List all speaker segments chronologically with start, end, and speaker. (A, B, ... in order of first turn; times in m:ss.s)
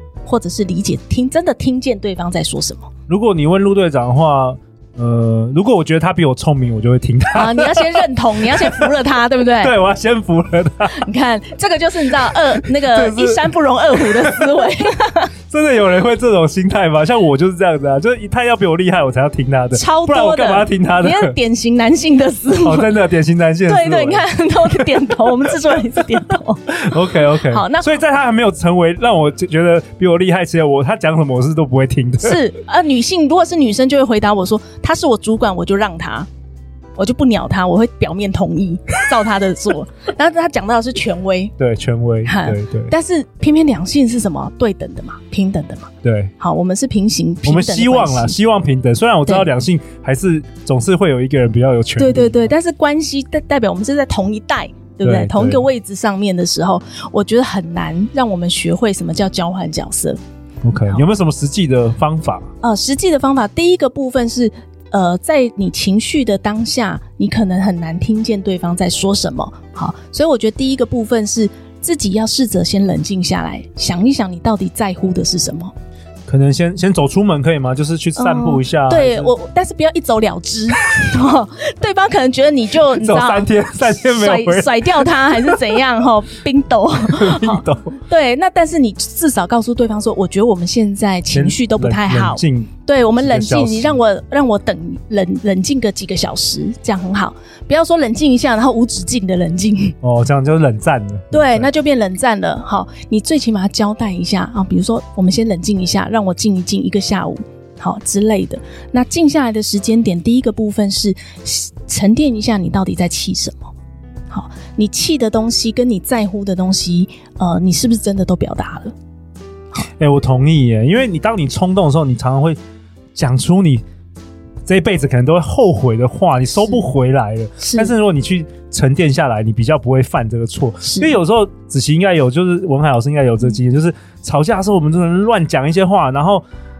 0:00.2-0:02.9 A
0:03.1-0:07.8 B
0:07.3-0:09.7 A
0:08.5-0:08.9 B
0:09.6-0:11.0 B
0:10.9-0:15.3 A
0:12.3-0:14.7 B
0:15.5-0:21.3 B
0:19.7-0:22.9 A
0:22.6-0:24.8 B
0:23.6-0:27.9 A
0:26.7-0:32.4 B
0:32.2-0:36.3 A
0:37.0-0:41.5 A
0:41.6-0:42.9 B
0:42.2-0:48.4 A
0:46.0-0:46.3 B
0:47.4-0:52.5 B
0:52.0-1:00.2 A
0:55.0-0:55.6 B
1:00.6-1:02.5 B
1:02.6-1:15.7 A
1:16.3-1:19.3 B
1:18.2-1:39.9 A
1:22.9-1:25.8 B
1:27.0-1:28.0 B
1:31.3-1:34.0 B
1:40.0-1:41.7 B
1:41.3-1:53.7 A
1:54.3-1:58.9 A
2:00.0-2:02.6 B
2:03.2-2:03.8 B
2:04.6-2:16.4 B
2:07.6-2:07.9 A
2:10.8-2:11.2 A